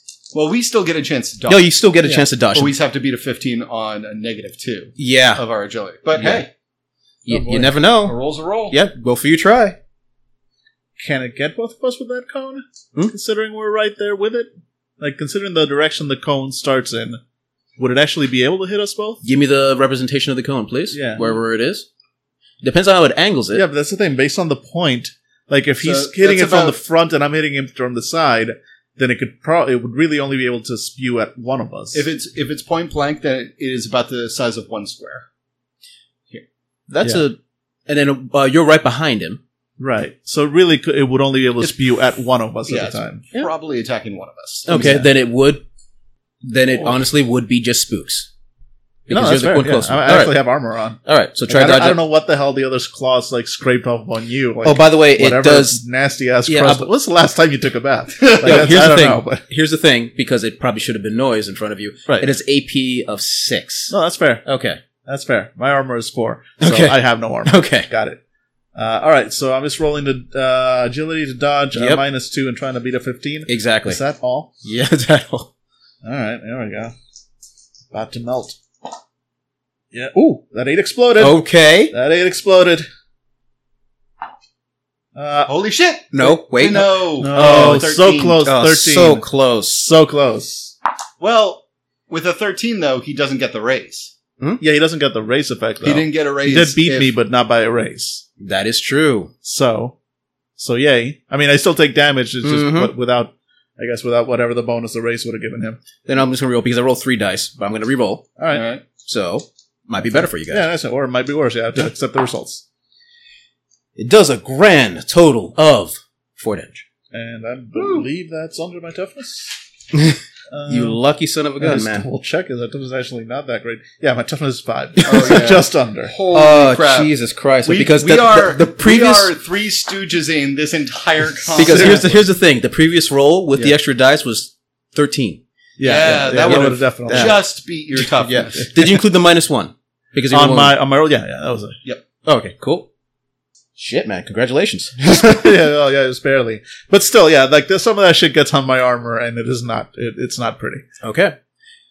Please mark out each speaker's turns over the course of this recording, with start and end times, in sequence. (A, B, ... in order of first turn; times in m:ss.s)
0:00.3-0:01.7 A
0:01.5-0:02.7 B
0:02.5-0:06.5 A
0:05.0-0:05.4 B
0:06.2-0:06.5 B
0:07.3-0:09.8 B
0:07.3-0:07.8 C
0:07.9-0:08.8 A
0:11.0-0:17.2 C
0:17.8-0:19.2 C
0:19.2-0:21.9 B
0:20.9-0:21.3 C
0:22.6-0:23.6 B
0:23.5-0:32.1 C
0:25.8-0:26.8 A
0:31.9-0:35.2 A
0:36.9-0:39.4 B
0:39.8-0:43.2 C
0:42.7-0:45.0 A
0:44.7-0:45.6 B
0:44.7-0:45.1 C
0:46.4-0:48.3 B
0:49.1-0:50.4 B
0:49.1-0:59.4 C
0:51.0-0:52.0 B
0:54.6-0:55.8 B
0:56.5-0:56.9 B
0:58.2-0:58.7 A
0:58.4-1:04.8 B
1:02.1-1:02.3 C
1:03.9-1:04.4 C
1:05.0-1:08.2 C
1:06.6-1:07.9 B
1:08.8-1:14.5 C
1:11.8-1:12.0 B
1:13.5-1:14.0 B
1:14.6-1:15.5 B
1:16.0-1:16.9 C
1:17.9-1:18.6 C
1:19.9-1:22.9 C
1:21.2-1:22.0 B
1:25.2-1:25.6 C
1:25.5-1:28.4 A
1:26.1-1:29.9 B
1:26.8-1:30.7 C
1:31.2-1:34.1 A
1:34.6-1:38.2 C
1:35.8-1:37.1 A
1:38.4-1:39.3 B
1:39.4-1:40.0 C
1:40.6-1:45.8 C
1:42.4-1:42.9 B
1:46.1-1:48.2 B
1:48.4-1:48.7 C
1:48.5-1:48.8 A
1:49.0-1:50.7 B
1:50.5-1:52.6 C
1:54.0-1:56.8 B
1:57.1-1:59.6 C
1:57.8-1:58.1 A
1:59.9-2:02.1 B
2:00.5-2:01.0 C
2:01.6-2:06.2 C
2:05.0-2:12.2 A
2:06.3-2:09.3 B
2:11.5-2:12.2 C
2:11.6-2:15.4 B
2:15.8-2:17.4 C
2:15.8-2:18.7 A
2:16.0-2:17.4 B
2:18.0-2:20.8 B
2:20.3-2:21.8 C
2:22.2-2:22.9 B
2:23.8-2:25.4 B
2:25.0-2:30.8 C
2:31.0-2:31.4 B